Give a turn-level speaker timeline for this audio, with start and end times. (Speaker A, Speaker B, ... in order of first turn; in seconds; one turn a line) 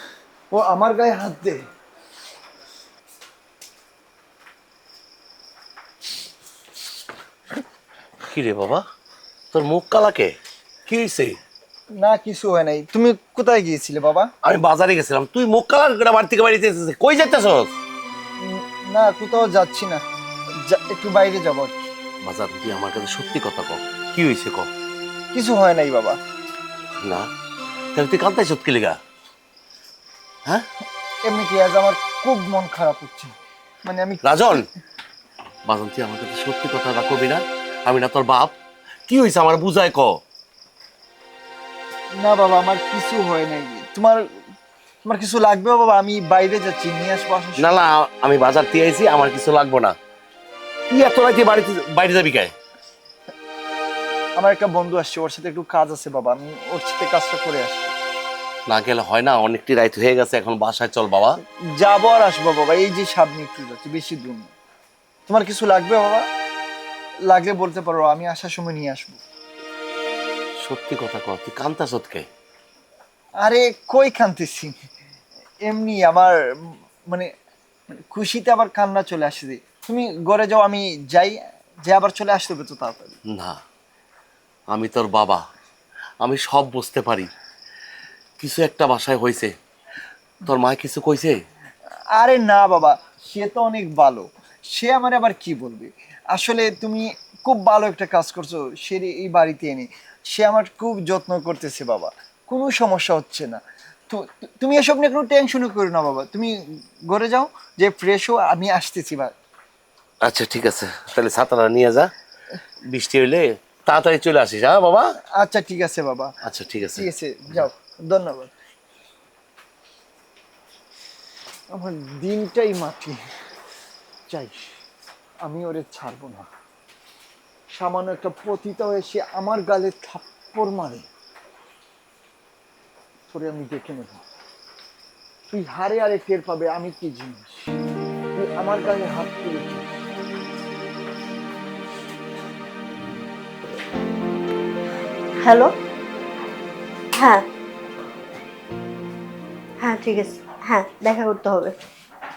Speaker A: 0.5-1.6
Speaker B: 8.3-8.9
Speaker B: 9.5-10.4
Speaker B: 10.9-11.4
Speaker A: 12.0-14.3
Speaker B: 14.4-17.7
Speaker A: 18.4-20.0
Speaker A: 20.6-21.9
Speaker B: 22.3-24.7
Speaker A: 25.3-26.2
Speaker B: 27.0-27.3
Speaker B: 27.9-29.0
Speaker A: 31.3-34.7
Speaker B: 34.2-34.7
Speaker B: 35.7-38.5
Speaker B: 39.1-40.2
Speaker A: 42.2-44.3
Speaker A: 45.0-47.8
Speaker B: 47.6-50.0
Speaker B: 50.9-52.5
Speaker A: 54.4-57.9
Speaker B: 58.7-61.4
Speaker A: 61.4-64.5
Speaker A: 65.3-66.3
Speaker A: 67.3-69.2
Speaker B: 70.6-72.3
Speaker A: 73.4-74.8
Speaker A: 75.7-76.4
Speaker A: 77.1-77.3
Speaker A: 77.9-83.2
Speaker B: 83.3-83.6
Speaker B: 84.7-85.4
Speaker B: 86.2-87.3
Speaker B: 88.4-89.5
Speaker B: 90.5-91.4
Speaker A: 92.2-106.6
Speaker A: 107.1-109.3
Speaker B: 110.2-112.1
Speaker B: 112.9-115.1
Speaker A: 115.4-116.3
Speaker B: 116.4-117.1
Speaker A: 117.0-118.5
Speaker A: 121.7-123.2
Speaker A: 124.3-124.7
Speaker A: 125.5-126.5
Speaker A: 127.7-131.1
Speaker A: 133.3-134.2
Speaker A: 135.5-137.8
Speaker A: 138.3-139.9
Speaker C: 145.4-145.7
Speaker C: 147.2-147.4
Speaker C: 149.8-151.7